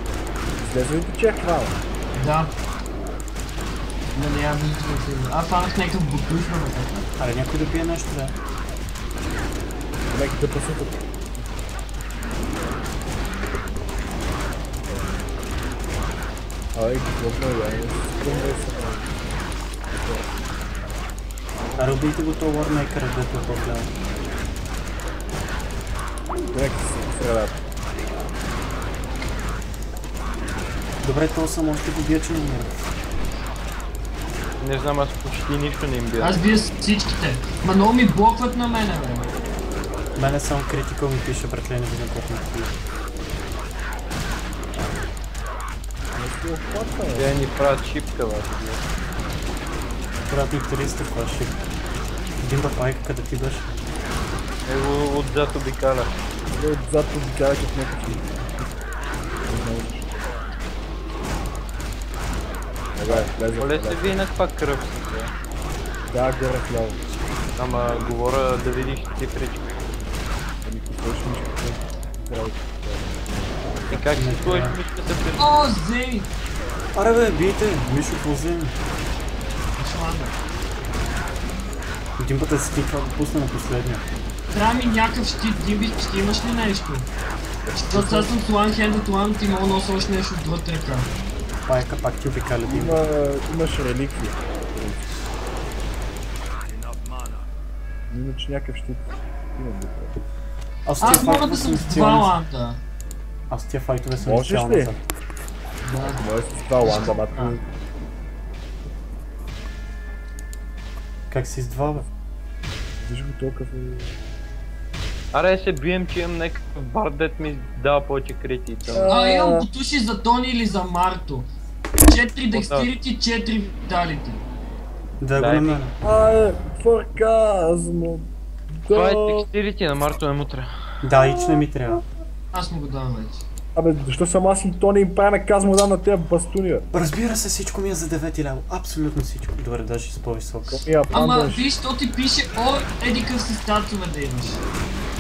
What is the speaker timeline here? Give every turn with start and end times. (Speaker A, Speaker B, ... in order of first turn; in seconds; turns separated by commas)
Speaker A: 0.6-1.8, Speaker B: 2.1-2.5, Speaker B: 4.2-7.1, Speaker C: 7.2-8.3, Speaker A: 10.1-11.4, Speaker A: 16.7-20.4, Speaker C: 21.8-23.9, Speaker A: 26.3-27.6, Speaker C: 31.0-32.9, Speaker D: 34.6-36.5, Speaker B: 36.2-39.3, Speaker C: 40.2-42.7, Speaker A: 46.1-47.4, Speaker D: 47.2-48.8, Speaker C: 50.3-51.6, Speaker C: 52.4-53.8, Speaker D: 54.7-56.1, Speaker A: 56.5-58.7, Speaker A: 59.4-60.2, Speaker A: 63.0-64.2, Speaker D: 63.1-65.3, Speaker A: 66.1-67.0, Speaker D: 67.6-69.8, Speaker A: 70.6-73.7, Speaker D: 73.9-75.6, Speaker C: 74.1-74.8, Speaker B: 75.4-76.3, Speaker C: 77.0-78.8, Speaker B: 79.8-80.3, Speaker C: 82.2-84.0, Speaker B: 84.5-87.1, Speaker A: 87.7-88.3, Speaker B: 87.8-91.1, Speaker C: 91.7-93.0, Speaker A: 92.7-95.1, Speaker A: 98.1-100.2, Speaker C: 100.9-102.3, Speaker B: 101.0-102.8, Speaker C: 103.5-105.0, Speaker A: 104.2-104.9, Speaker B: 105.8-106.2, Speaker A: 106.2-107.6, Speaker B: 106.8-107.6, Speaker C: 111.3-112.1, Speaker A: 113.0-114.1, Speaker D: 115.3-119.1, Speaker A: 118.9-119.7, Speaker B: 119.1-121.5, Speaker B: 122.1-124.5, Speaker D: 122.5-122.9, Speaker C: 125.2-126.0, Speaker D: 125.4-125.9, Speaker A: 126.0-129.5, Speaker D: 128.9-131.0, Speaker C: 131.0-132.0, Speaker A: 131.2-131.7, Speaker B: 132.5-133.4, Speaker A: 133.8-136.9, Speaker C: 136.9-140.8, Speaker A: 140.7-141.7, Speaker B: 141.1-144.6